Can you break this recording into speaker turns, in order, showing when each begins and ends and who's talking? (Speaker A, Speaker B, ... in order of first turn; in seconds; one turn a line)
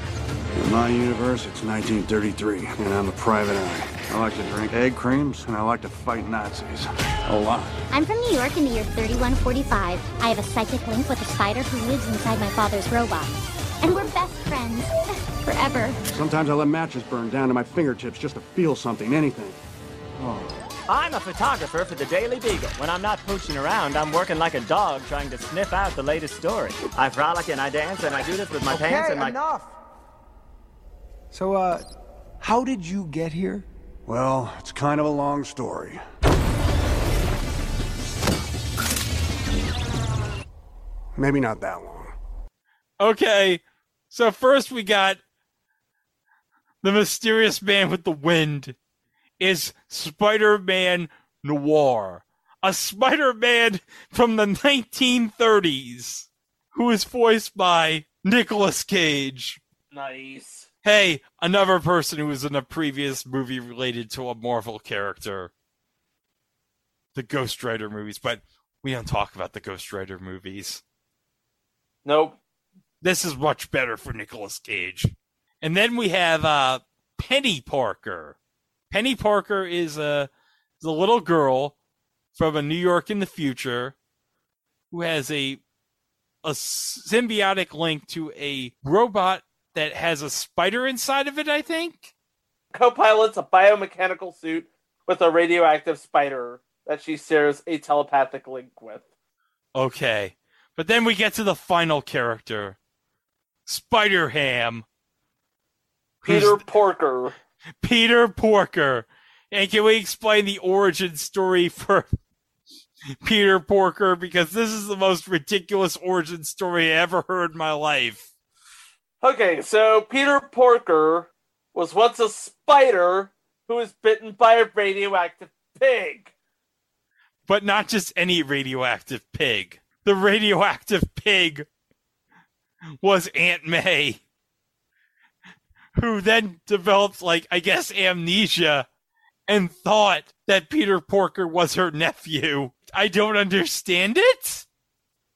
Speaker A: 0.6-7.7
Speaker B: 7.9-16.0
Speaker A: 16.1-19.6
Speaker C: 20.9-29.4
Speaker D: 28.7-29.8
Speaker D: 31.3-31.9
Speaker D: 32.4-33.7
Speaker A: 34.1-36.0
Speaker A: 41.1-42.1
Speaker E: 43.0-45.2
Speaker E: 46.8-48.8
Speaker E: 49.4-59.6
Speaker F: 59.9-60.7
Speaker E: 60.8-65.5
Speaker E: 67.2-70.8
Speaker F: 72.0-72.4
Speaker E: 73.0-78.4
Speaker E: 78.9-81.8
Speaker E: 82.3-84.0
Speaker E: 84.9-85.6
Speaker E: 86.4-92.1
Speaker F: 92.7-99.1
Speaker E: 99.7-102.8
Speaker E: 103.7-104.9
Speaker E: 106.2-106.6
Speaker F: 106.3-107.4
Speaker E: 107.8-112.1
Speaker E: 113.1-118.3
Speaker F: 119.2-126.3
Speaker E: 127.5-131.7
Speaker E: 133.0-134.2
Speaker E: 136.0-138.9
Speaker E: 139.5-144.7